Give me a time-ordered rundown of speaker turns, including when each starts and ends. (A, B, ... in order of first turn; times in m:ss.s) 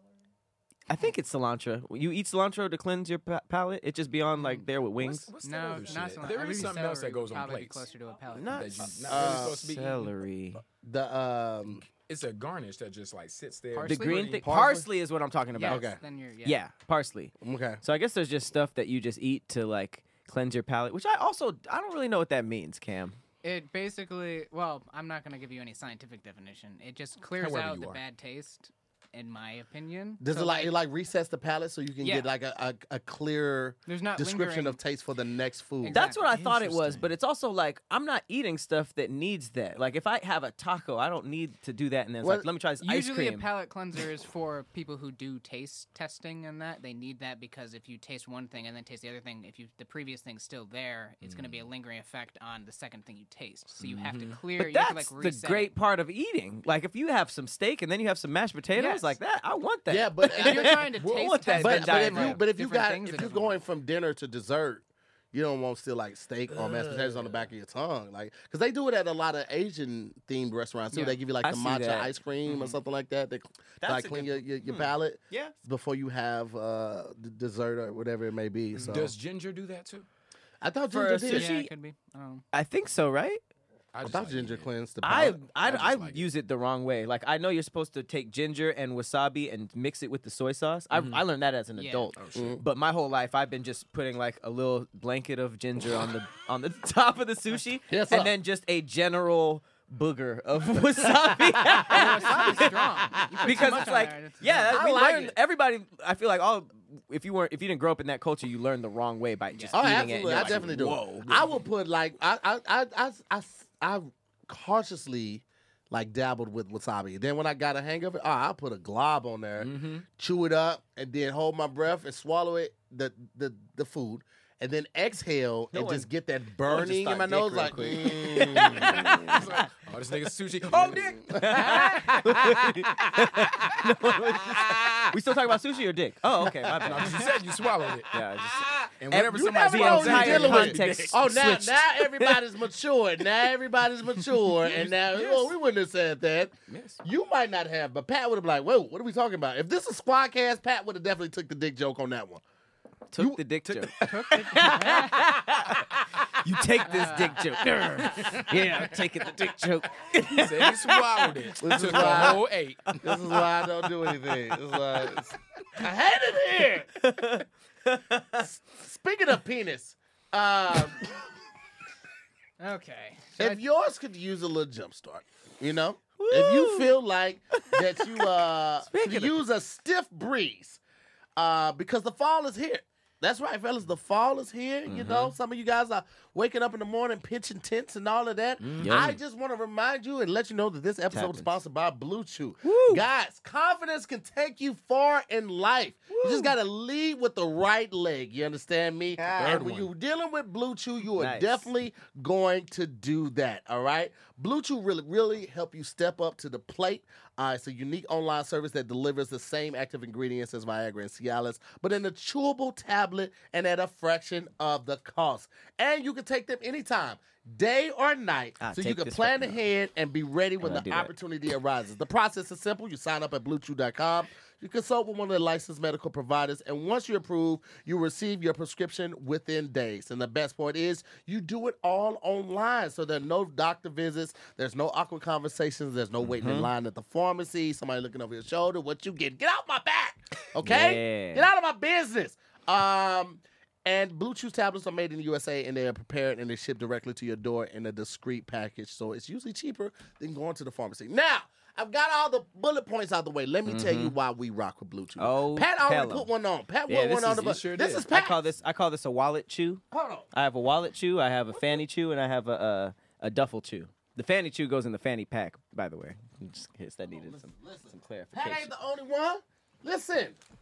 0:00.9-0:05.3 A
0:05.0-0:07.9 B
0:05.4-0:08.9 C
0:08.3-0:10.6 A
0:08.5-0:10.1 B
0:09.1-0:09.6 D
0:10.8-0:11.8 D
0:12.0-0:14.4 B
0:13.7-0:14.4 C
0:13.8-0:15.9 A
0:14.4-0:14.9 D
0:15.5-0:16.6 C
0:15.7-0:16.0 D
0:16.4-0:23.2 A
0:17.4-0:17.8 D
0:23.4-0:30.7 C
0:27.3-0:28.0 B
0:30.2-0:36.0 D
0:32.0-0:32.3 C
0:33.9-0:34.8 C
0:35.8-0:36.3 C
0:35.9-0:43.5 A
0:36.3-0:37.1 B
0:42.2-0:42.5 D
0:42.8-0:55.7 C
0:51.2-0:51.6 B
0:53.8-0:54.4 B
0:54.6-1:02.4 A
0:58.7-0:59.2 C
0:59.9-1:00.9 D
1:00.3-1:03.6 C
1:01.0-1:01.6 B
1:01.6-1:19.1 D
1:10.9-1:11.2 C
1:11.4-1:12.1 A
1:12.4-1:12.8 C
1:13.8-1:15.5 A
1:18.8-1:20.0 B
1:20.6-1:21.5 D
1:20.9-1:21.7 A
1:21.3-1:22.4 C
1:22.5-1:23.4 A
1:23.9-1:24.7 B
1:24.0-1:25.4 D
1:25.0-1:42.7 A
1:25.6-1:26.3 B
1:30.9-1:31.2 B
1:31.8-1:32.1 C
1:32.2-1:32.6 B
1:32.3-1:32.6 D
1:37.9-1:38.3 D
1:41.3-1:43.8 D
1:41.8-1:44.8 C
1:43.4-1:51.4 A
1:44.7-1:45.4 D
1:49.5-1:49.9 C
1:49.7-2:09.4 D
1:50.7-1:51.4 B
1:59.6-2:00.0 B
2:05.7-2:06.1 A
2:06.6-2:09.4 A
2:08.6-2:11.5 B
2:10.7-2:15.1 D
2:11.3-2:17.3 A
2:16.7-2:18.1 B
2:18.1-2:22.4 A
2:18.5-2:32.4 D
2:19.0-2:21.2 B
2:24.6-2:25.5 B
2:26.7-2:27.0 B
2:33.1-2:42.3 A
2:33.2-2:35.2 D
2:33.7-2:33.9 B
2:34.0-2:35.3 C
2:35.7-2:36.2 D
2:36.8-2:37.6 C
2:40.2-2:43.2 B
2:41.6-2:42.4 D
2:43.0-2:46.9 D
2:47.0-2:48.4 A
2:48.4-2:51.1 D
2:52.6-2:53.6 C
2:53.4-3:00.8 D
2:56.2-2:57.0 A
2:57.6-2:58.3 A
2:58.8-2:59.4 A
3:01.4-4:18.5 D
3:04.9-3:05.3 A
3:08.6-3:09.1 B
3:08.8-3:09.1 A
3:11.1-3:11.6 A
3:12.6-3:13.0 A
3:16.1-3:16.5 A
3:19.2-3:19.9 B
3:21.1-3:21.7 A
3:38.6-3:39.6 A
3:40.6-3:41.1 A
3:56.3-3:56.7 A
4:00.6-4:01.5 A
4:13.6-4:14.1 A
4:15.2-4:16.3 A
4:16.9-4:18.1 B
4:18.1-4:28.7 A
4:19.9-4:20.2 D
4:27.1-4:30.4 D